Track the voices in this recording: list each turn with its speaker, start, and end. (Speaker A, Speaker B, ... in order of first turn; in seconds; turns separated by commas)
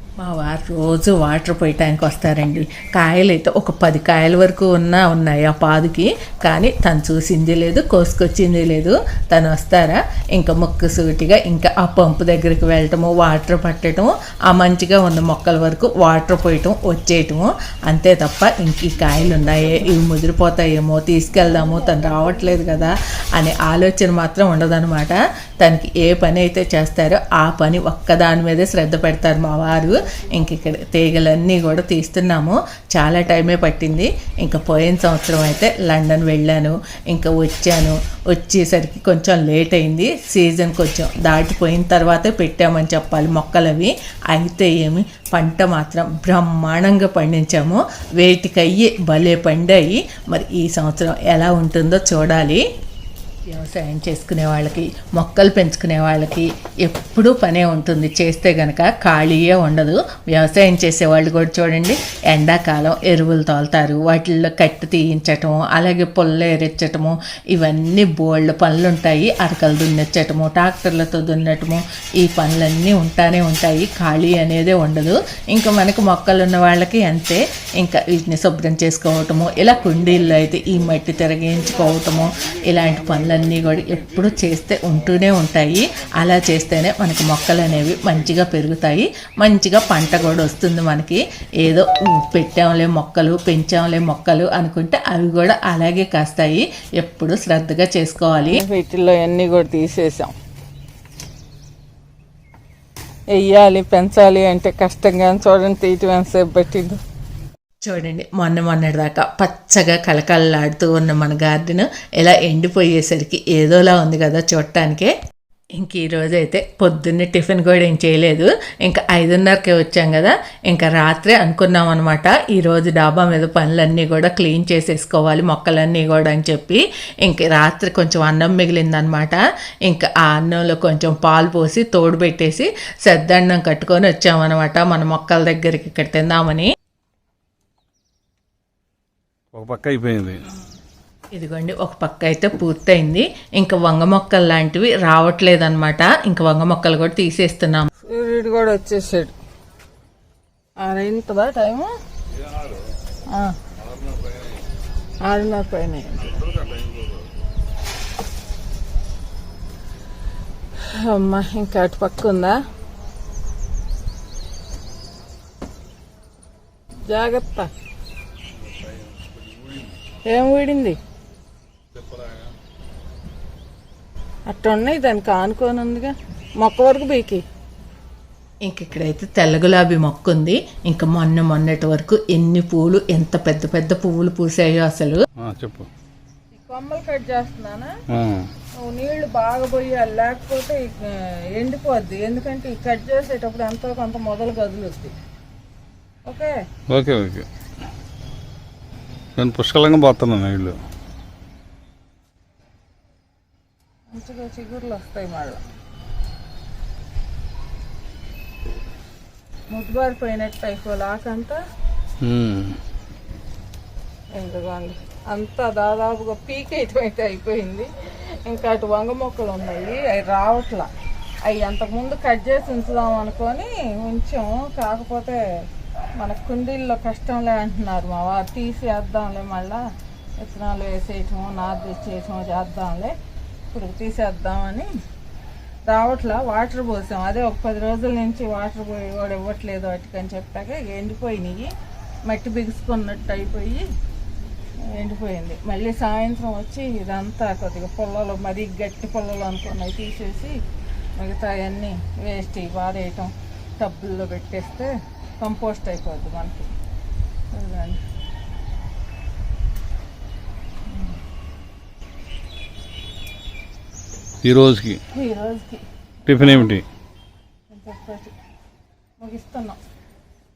Speaker A: 0.2-52.6, Speaker B: 21.3-22.9, Speaker B: 29.9-30.6, Speaker A: 53.5-98.6, Speaker B: 98.4-100.3, Speaker B: 103.3-107.0, Speaker A: 107.8-115.1, Speaker A: 115.8-136.7, Speaker C: 139.5-140.4, Speaker A: 141.3-147.9, Speaker B: 148.0-149.3, Speaker B: 150.8-151.9, Speaker B: 153.3-153.6, Speaker B: 155.2-156.4, Speaker B: 160.8-162.6, Speaker B: 167.1-167.7, Speaker B: 170.3-171.0, Speaker B: 174.5-177.4, Speaker A: 178.7-185.2, Speaker C: 185.4-185.9, Speaker B: 186.5-187.9, Speaker C: 188.1-188.5, Speaker B: 188.8-195.1, Speaker B: 196.3-196.6, Speaker C: 196.9-197.4, Speaker C: 199.4-200.8, Speaker B: 204.1-205.6, Speaker B: 209.7-211.6, Speaker C: 212.2-212.8, Speaker B: 214.3-217.9, Speaker B: 218.4-220.9, Speaker B: 221.4-225.4, Speaker B: 226.2-229.8, Speaker B: 230.4-233.1, Speaker B: 233.7-234.9, Speaker B: 235.9-241.7, Speaker B: 242.3-243.8, Speaker B: 244.8-250.6, Speaker B: 251.2-256.7, Speaker B: 257.5-258.0, Speaker C: 264.4-265.0, Speaker B: 265.1-265.8, Speaker C: 266.2-266.8, Speaker B: 267.7-268.3, Speaker B: 269.2-269.8